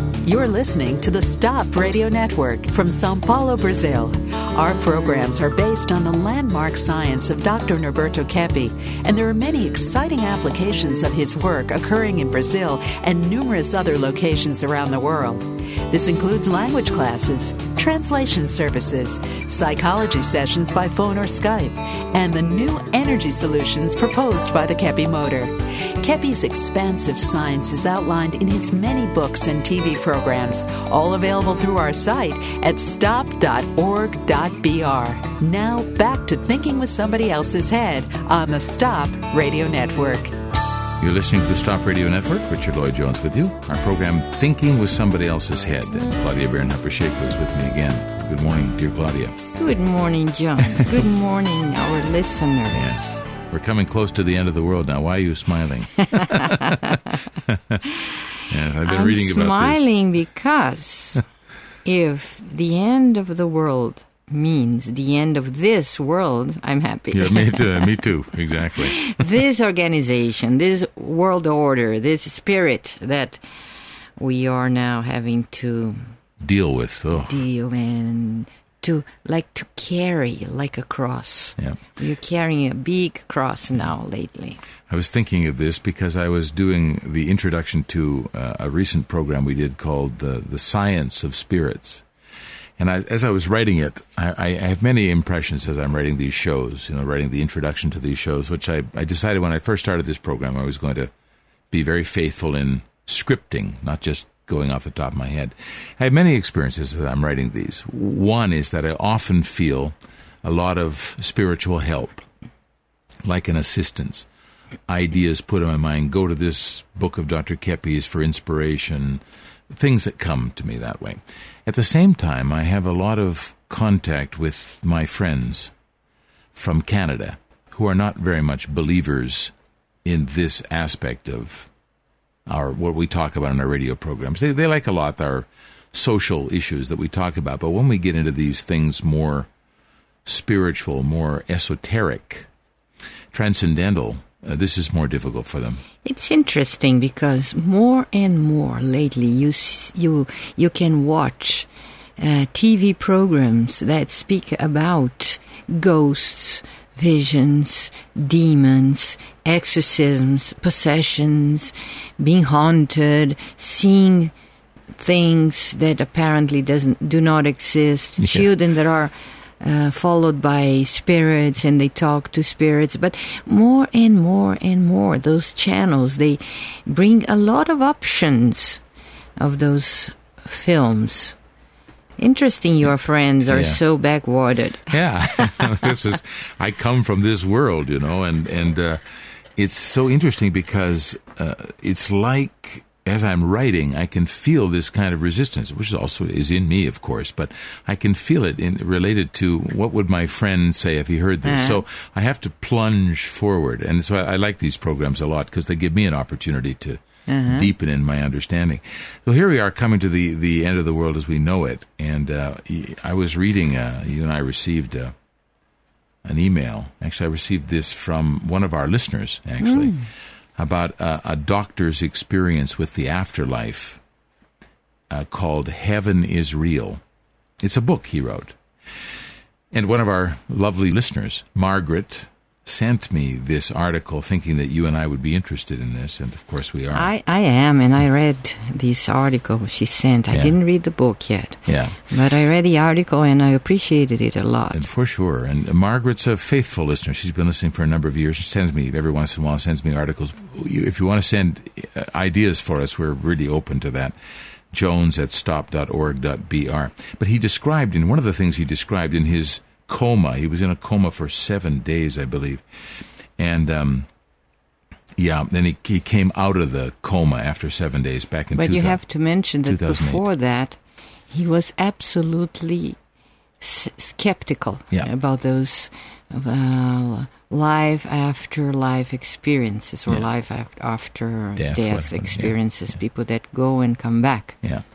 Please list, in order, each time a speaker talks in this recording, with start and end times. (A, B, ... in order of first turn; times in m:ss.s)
0:00.2-0:40.3 A
0:41.0-0:49.4 B
0:49.6-0:52.9 C
0:52.7-0:57.9 B
0:56.1-0:57.1 C
0:58.4-0:59.9 B
0:58.8-1:01.2 C
1:01.8-1:07.9 C
1:07.1-1:09.1 B
1:08.7-1:13.4 C
1:14.2-1:16.1 C
1:16.4-1:17.4 B
1:17.2-1:24.6 C
1:24.9-1:32.0 B
1:32.8-1:41.1 B
1:41.7-1:52.2 B
1:53.2-1:54.3 B
1:54.9-2:05.7 B
2:06.5-2:09.5 B
2:10.0-2:11.7 B
2:12.5-2:19.5 B
2:20.2-2:22.5 B
2:23.3-2:25.8 B
2:26.0-2:44.3 C
2:45.0-2:58.8 C
2:48.2-2:48.5 B
2:59.4-3:01.4 C
3:02.2-3:05.8 C
3:03.5-3:03.8 B
3:04.9-3:09.0 B
3:09.6-3:35.1 B
3:21.4-3:21.8 C
3:27.3-3:27.7 C
3:36.2-3:44.0 B
3:39.6-3:40.0 C
3:45.1-3:47.0 B
3:47.6-3:48.6 B
3:49.7-3:57.1 B
3:56.9-4:04.8 C
4:01.7-4:02.1 B
4:04.7-4:14.2 B
4:14.7-4:22.6 B
4:23.4-4:24.1 B
4:25.2-4:29.0 B
4:28.5-4:30.8 C
4:29.6-4:30.2 B
4:31.3-4:33.0 C
4:33.6-4:44.6 C
4:41.6-4:42.5 B